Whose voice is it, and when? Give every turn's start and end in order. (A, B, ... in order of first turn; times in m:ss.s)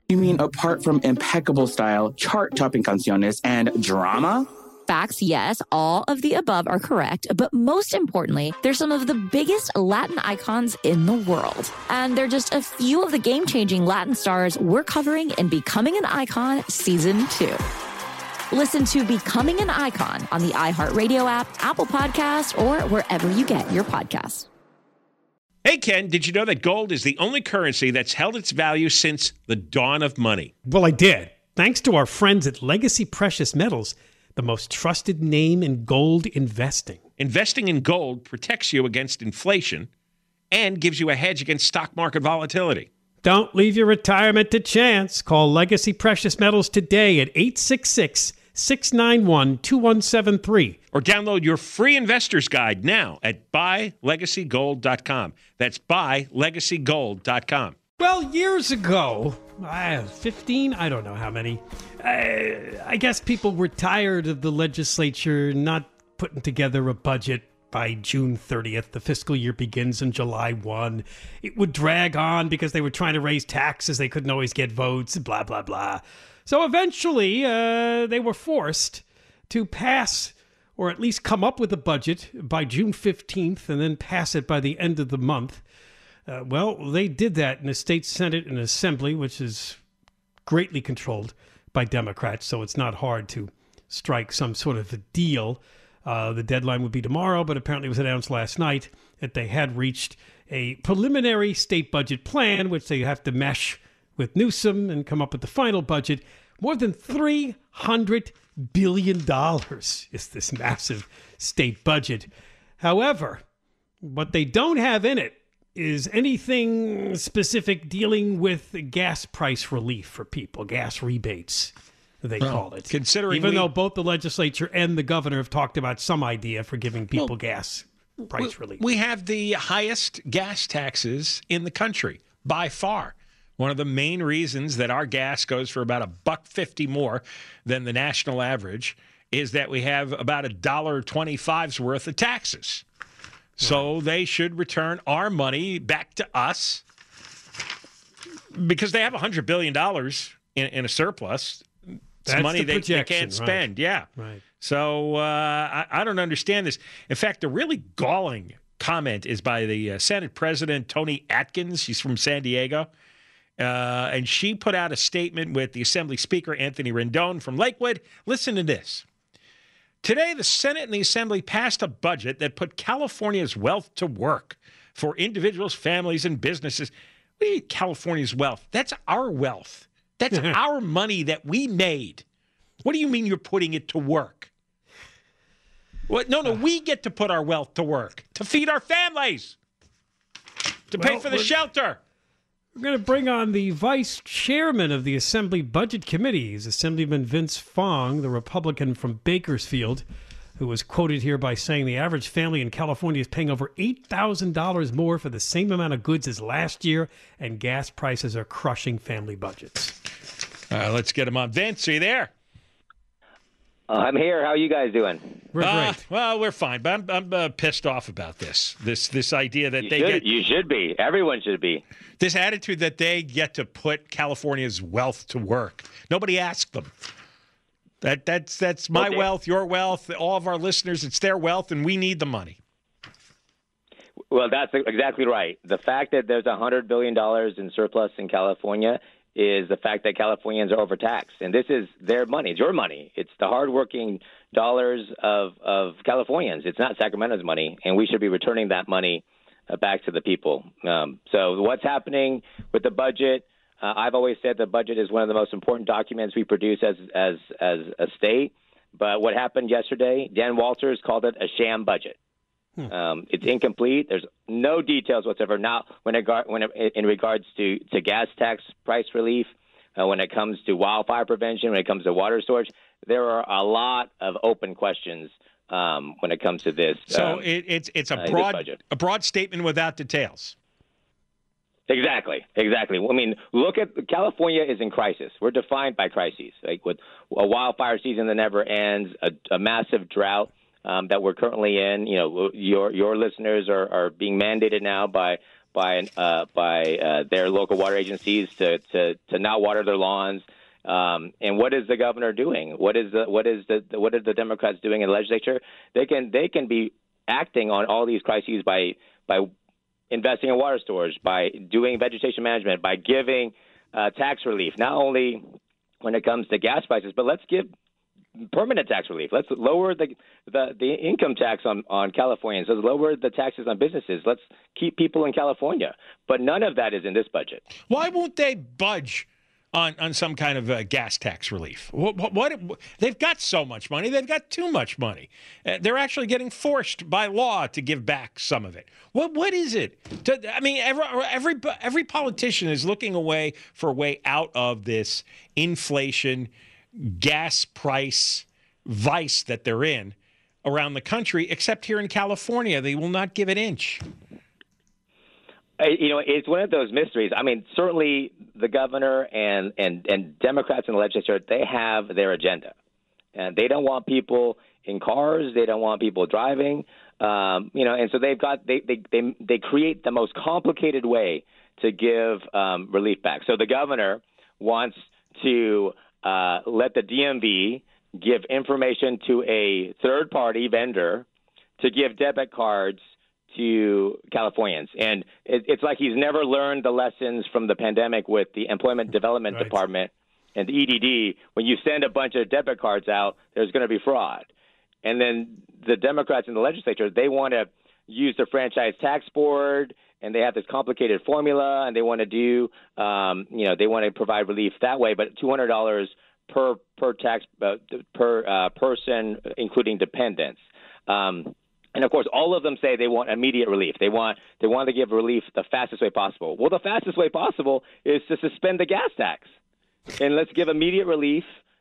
0:00.1-0:04.5 A
0:04.9-0:17.6 B
0:18.5-0:24.5 B
0:25.6-0:30.5 C
0:30.6-0:37.0 D
0:37.2-0:39.9 C
0:40.5-0:42.9 C
0:43.2-0:50.8 D
0:50.9-0:57.8 C
0:58.0-1:25.6 D
1:26.3-1:29.8 D
1:30.4-1:52.3 D
1:52.8-1:53.4 D
1:54.0-2:08.8 D
2:02.4-2:03.7 C
2:08.4-2:22.8 C
2:23.6-2:26.8 C
2:28.5-2:31.7 C
2:32.2-2:34.1 C
2:32.2-2:34.4 D
2:34.6-2:42.9 C
2:43.6-2:49.0 C
2:50.0-3:02.2 C
3:02.8-3:04.5 C
3:06.1-3:09.6 C
3:10.9-3:12.0 C
3:11.0-3:11.5 D
3:12.7-3:20.0 D
3:20.6-3:30.0 D
3:30.7-3:32.3 C
3:33.9-3:35.4 E
3:35.5-3:36.0 D
3:35.6-3:40.2 C
3:39.8-3:41.8 E
3:42.2-3:47.1 C
3:48.0-3:52.6 C
3:49.0-3:49.2 E
3:54.3-4:22.2 E
4:22.9-4:37.4 E
4:37.1-4:40.6 C
4:38.2-4:38.8 E
4:41.9-5:09.5 E
5:10.1-5:15.4 E
5:16.0-5:17.7 E
5:18.4-5:27.6 E
5:27.9-5:54.0 C
5:55.8-6:02.7 E
6:03.3-6:21.2 E
6:21.8-6:23.0 E
6:23.5-6:34.5 E
6:35.0-6:59.4 E
7:00.2-7:01.5 E